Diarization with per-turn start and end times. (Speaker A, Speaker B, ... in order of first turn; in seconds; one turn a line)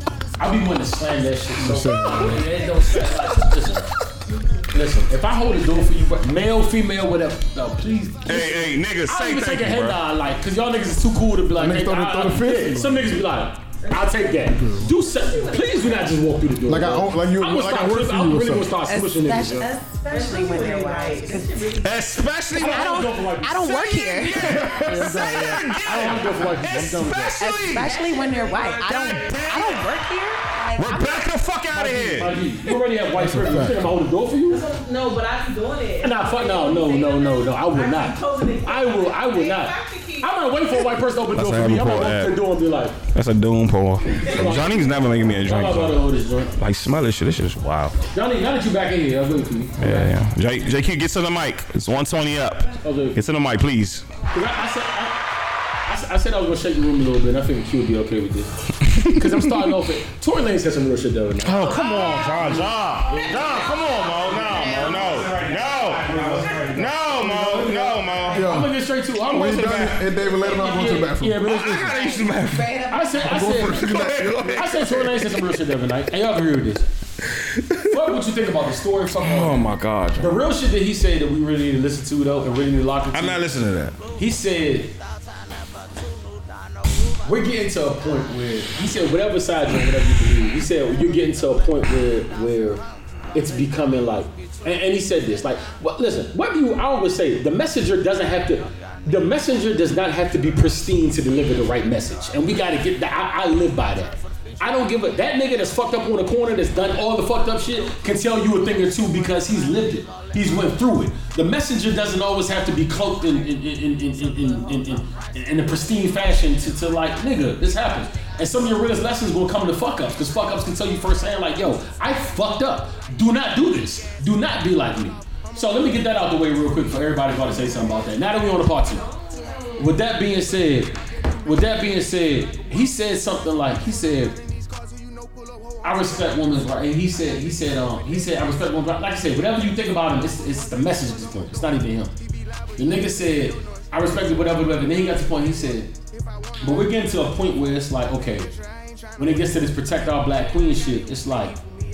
Speaker A: 0.4-3.9
Speaker B: 1.6-2.6
Speaker A: 4.7-19.7
Speaker C: 8.3-10.0
Speaker B: 11.5-13.1
Speaker D: 13.9-14.4
Speaker B: 14.4-14.9
Speaker D: 15.0-16.0
Speaker B: 16.7-18.8
Speaker E: 18.9-21.6
Speaker D: 20.0-22.1
Speaker C: 21.8-23.1
Speaker E: 22.5-24.6
Speaker A: 22.5-27.4
Speaker C: 24.1-28.0
Speaker B: 24.3-26.0
Speaker E: 25.3-25.6
Speaker E: 27.4-31.2
Speaker D: 27.8-29.3
Speaker C: 28.7-29.9
Speaker C: 30.8-32.7
Speaker A: 31.7-34.6
Speaker B: 33.1-33.9
Speaker D: 34.5-40.3
Speaker A: 36.0-43.0
Speaker C: 41.3-42.4
Speaker C: 43.1-46.0
Speaker A: 44.1-46.5
Speaker C: 46.5-48.0
Speaker A: 48.1-50.1
Speaker C: 49.8-54.1
Speaker A: 52.8-53.2
Speaker A: 54.3-55.2
Speaker A: 55.8-69.8
Speaker C: 58.9-59.6
Speaker C: 61.4-68.5
Speaker D: 61.8-62.5
Speaker E: 64.4-65.2
Speaker B: 68.3-71.5
Speaker C: 69.2-70.1
Speaker A: 70.3-72.0
Speaker C: 71.4-75.4
Speaker E: 71.7-73.8
Speaker A: 72.9-76.9
Speaker B: 73.3-74.6
Speaker C: 77.3-77.9
Speaker A: 77.8-79.6
Speaker C: 79.2-80.4
Speaker A: 80.2-83.5
Speaker C: 83.1-84.0
Speaker A: 84.1-84.9
Speaker A: 87.2-92.8
Speaker A: 93.3-129.1
Speaker A: 129.8-134.4
Speaker A: 135.8-142.1
Speaker A: 142.8-145.9
Speaker A: 146.6-148.5
Speaker A: 149.2-151.6